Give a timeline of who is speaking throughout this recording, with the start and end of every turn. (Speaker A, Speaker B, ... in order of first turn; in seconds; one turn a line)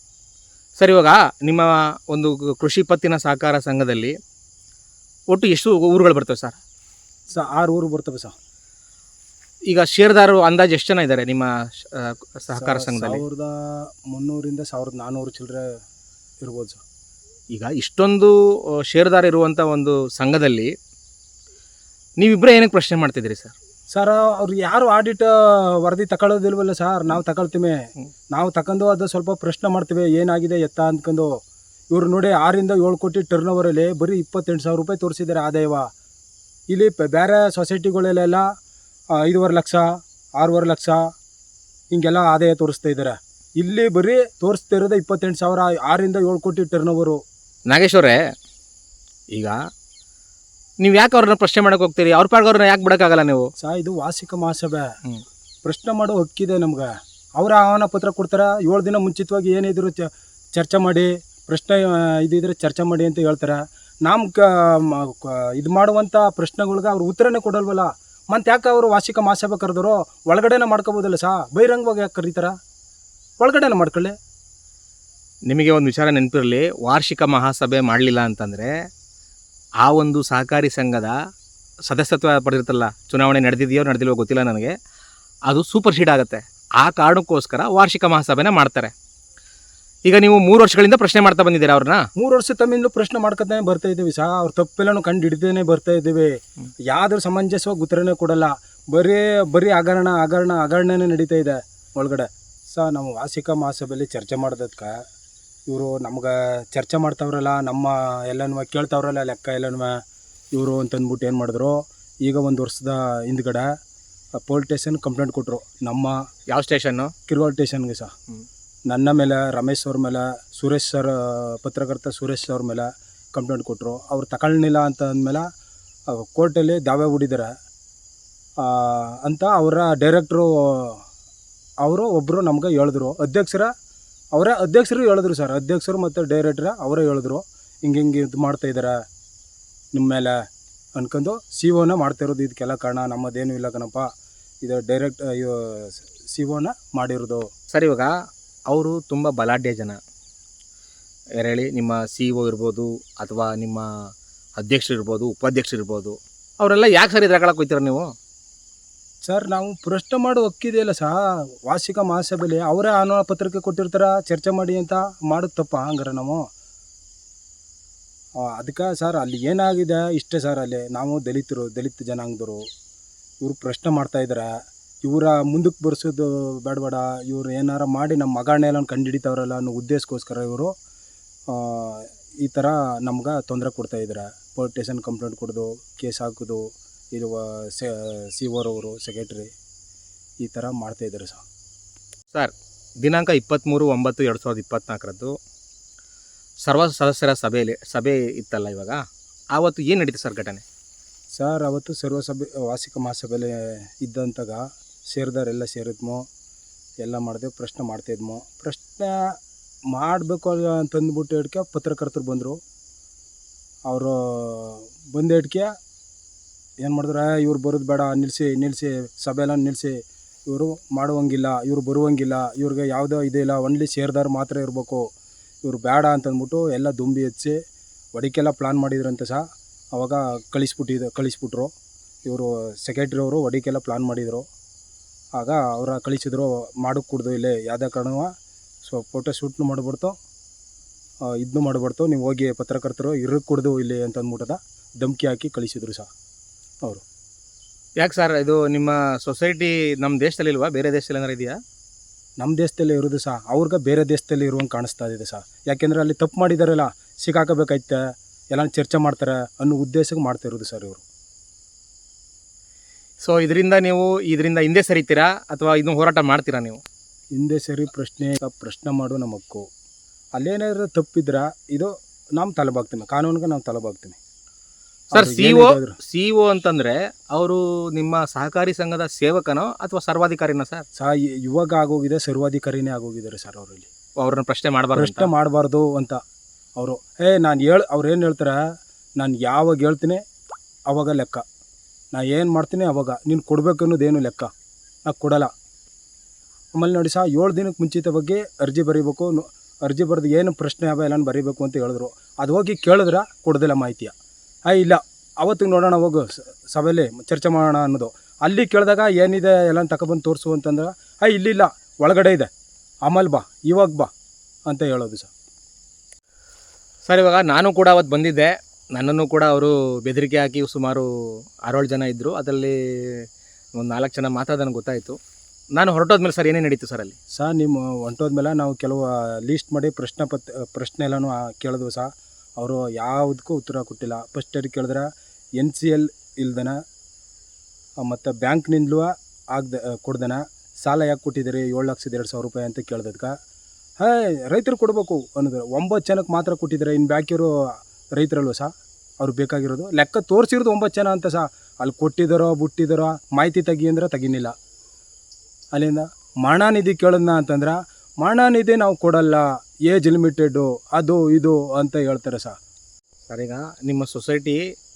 Speaker A: 0.8-4.1
Speaker A: 5.3-6.6
Speaker B: 7.3-8.3
Speaker A: 9.7-13.2
Speaker B: 12.5-15.8
Speaker B: 16.4-16.8
Speaker A: 17.5-18.3
Speaker A: 18.9-20.7
Speaker A: 22.2-23.5
Speaker B: 23.9-31.4
Speaker B: 31.9-35.9
Speaker B: 36.7-38.5
Speaker B: 39.1-41.0
Speaker B: 41.9-47.2
Speaker A: 47.7-48.2
Speaker A: 50.8-53.5
Speaker B: 53.6-54.9
Speaker B: 55.6-72.5
Speaker B: 73.4-74.1
Speaker A: 75.5-78.7
Speaker A: 79.8-81.1
Speaker A: 81.9-84.7
Speaker A: 85.5-88.9
Speaker A: 90.1-92.0
Speaker B: 92.2-105.0
Speaker B: 105.7-110.0
Speaker B: 110.5-113.7
Speaker B: 114.4-116.2
Speaker A: 116.5-117.1
Speaker B: 117.3-118.1
Speaker B: 118.9-125.4
Speaker B: 126.1-127.5
Speaker B: 128.6-131.0
Speaker B: 131.8-133.7
Speaker B: 134.3-139.0
Speaker B: 139.9-140.4
Speaker B: 140.9-144.1
Speaker B: 144.6-147.5
Speaker A: 147.7-148.1
Speaker A: 148.7-150.0
Speaker A: 151.4-153.9
Speaker A: 154.6-158.1
Speaker B: 159.2-166.5
Speaker B: 168.4-172.6
Speaker B: 173.4-180.7
Speaker B: 181.5-189.5
Speaker B: 190.4-191.4
Speaker A: 192.3-195.3
Speaker A: 196.6-199.0
Speaker A: 199.5-200.6
Speaker B: 201.3-206.2
Speaker B: 207.0-209.3
Speaker B: 209.9-212.6
Speaker B: 213.8-215.7
Speaker B: 216.8-225.1
Speaker B: 225.6-227.6
Speaker B: 228.1-231.7
Speaker B: 232.2-234.5
Speaker B: 235.3-238.3
Speaker B: 238.8-240.2
Speaker B: 241.2-246.1
Speaker A: 248.0-251.6
Speaker B: 252.4-261.0
Speaker A: 263.2-266.8
Speaker B: 267.3-269.6
Speaker B: 270.3-274.2
Speaker B: 275.1-276.0
Speaker A: 275.1-280.9
Speaker B: 281.0-283.9
Speaker A: 284.2-285.3
Speaker B: 284.9-286.2
Speaker B: 286.8-290.2
Speaker B: 290.9-291.4
Speaker B: 292.1-294.5
Speaker B: 295.1-295.5
Speaker B: 296.7-304.1
Speaker B: 304.7-312.5
Speaker B: 313.0-314.1
Speaker B: 314.7-315.3
Speaker A: 317.1-321.1
Speaker A: 321.7-323.2
Speaker A: 323.8-325.1
Speaker A: 325.8-327.2
Speaker B: 327.4-336.8
Speaker B: 338.0-343.3
Speaker B: 344.0-354.5
Speaker B: 355.7-362.6
Speaker A: 363.3-364.6